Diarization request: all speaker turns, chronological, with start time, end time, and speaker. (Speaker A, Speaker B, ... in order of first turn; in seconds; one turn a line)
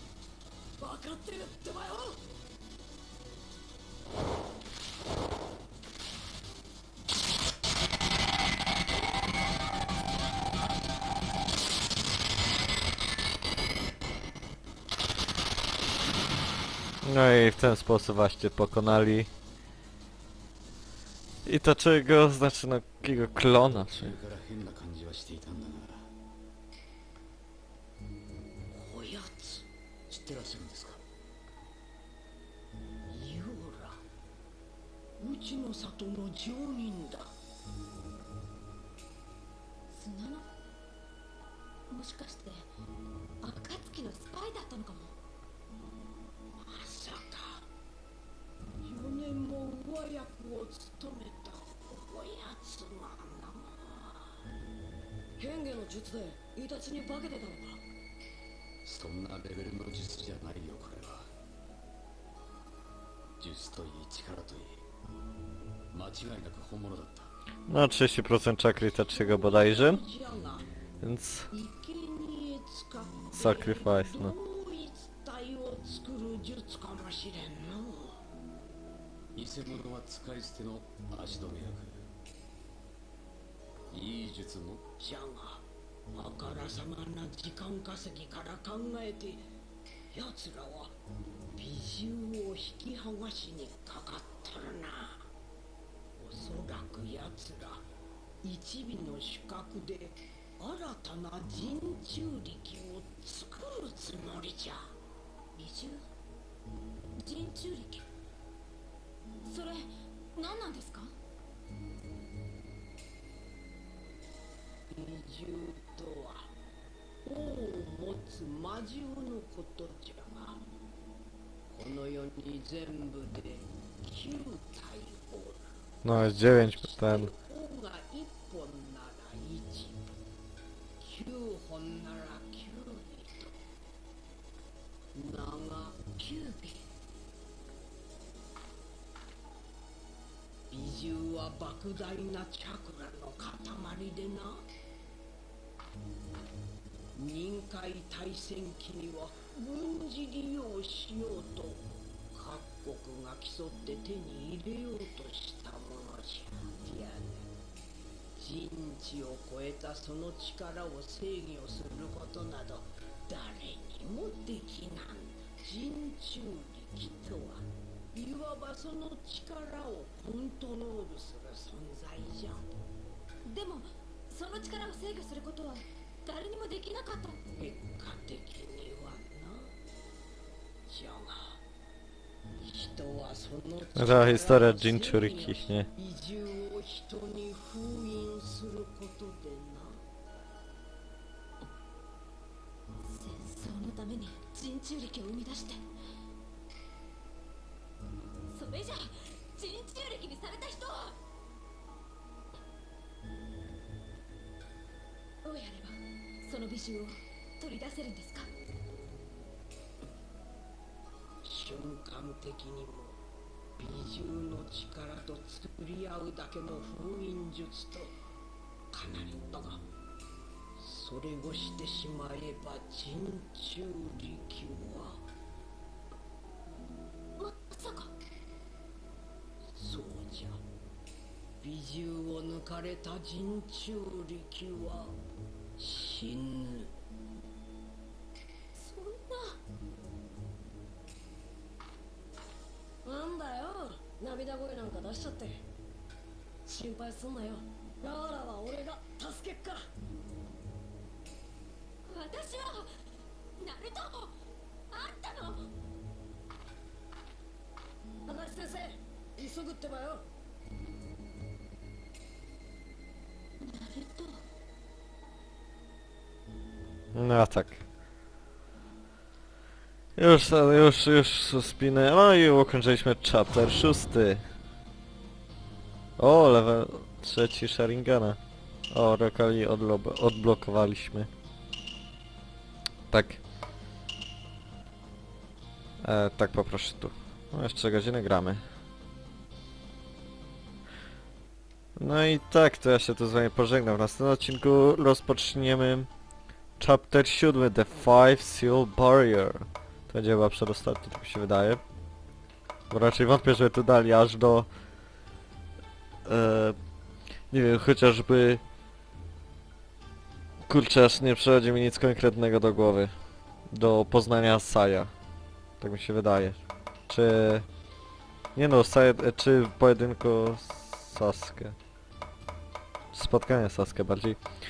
Speaker A: 0.8-2.2
Speaker B: 17.0-19.3
Speaker B: 21.4-24.1
Speaker C: 23.6-26.1
Speaker D: 28.7-29.7
Speaker C: 30.1-31.0
Speaker D: 33.1-34.0
Speaker D: 35.2-37.4
Speaker E: 39.9-40.5
Speaker E: 41.9-42.7
Speaker E: 43.4-45.1
Speaker D: 46.6-47.6
Speaker D: 48.8-54.4
Speaker A: 55.4-57.8
Speaker C: 58.8-61.3
Speaker C: 63.4-64.8
Speaker C: 65.9-67.3
Speaker B: 67.7-70.0
Speaker D: 69.1-70.7
Speaker B: 71.0-71.5
Speaker D: 71.5-78.2
Speaker B: 73.3-74.3
Speaker C: 79.3-82.1
Speaker C: 83.9-84.8
Speaker D: 85.0-89.5
Speaker D: 90.1-91.0
Speaker D: 91.5-95.3
Speaker D: 96.2-97.9
Speaker D: 98.4-104.9
Speaker E: 105.5-106.0
Speaker E: 107.2-108.1
Speaker E: 109.4-111.2
Speaker D: 114.9-116.5
Speaker D: 117.2-120.6
Speaker D: 121.7-130.1
Speaker B: 126.0-127.3
Speaker D: 131.0-133.6
Speaker D: 135.1-136.8
Speaker D: 140.7-144.7
Speaker D: 147.1-157.5
Speaker D: 158.3-172.7
Speaker E: 173.4-177.4
Speaker D: 177.5-179.7
Speaker D: 180.9-181.6
Speaker D: 182.6-190.0
Speaker B: 183.9-185.9
Speaker E: 193.0-195.8
Speaker E: 198.5-201.2
Speaker E: 205.4-208.5
Speaker D: 211.4-213.2
Speaker D: 213.8-218.2
Speaker D: 218.9-219.8
Speaker D: 220.8-225.2
Speaker E: 227.4-228.1
Speaker D: 229.7-230.6
Speaker D: 231.6-235.2
Speaker D: 235.8-236.9
Speaker E: 238.7-239.6
Speaker A: 243.0-245.6
Speaker A: 246.7-249.8
Speaker E: 252.1-252.9
Speaker E: 253.6-254.3
Speaker E: 254.9-255.7
Speaker A: 258.3-260.2
Speaker E: 263.6-264.4
Speaker B: 267.1-267.8
Speaker B: 270.1-274.4
Speaker B: 276.2-278.4
Speaker B: 278.9-281.3
Speaker B: 283.1-283.4
Speaker B: 286.0-288.6
Speaker B: 291.9-296.1
Speaker B: 296.8-301.8
Speaker B: 302.9-304.7
Speaker B: 306.2-306.8
Speaker B: 307.5-308.6
Speaker B: 310.7-313.1
Speaker B: 313.7-315.1
Speaker B: 315.8-317.6
Speaker B: 318.5-321.8
Speaker B: 323.1-324.4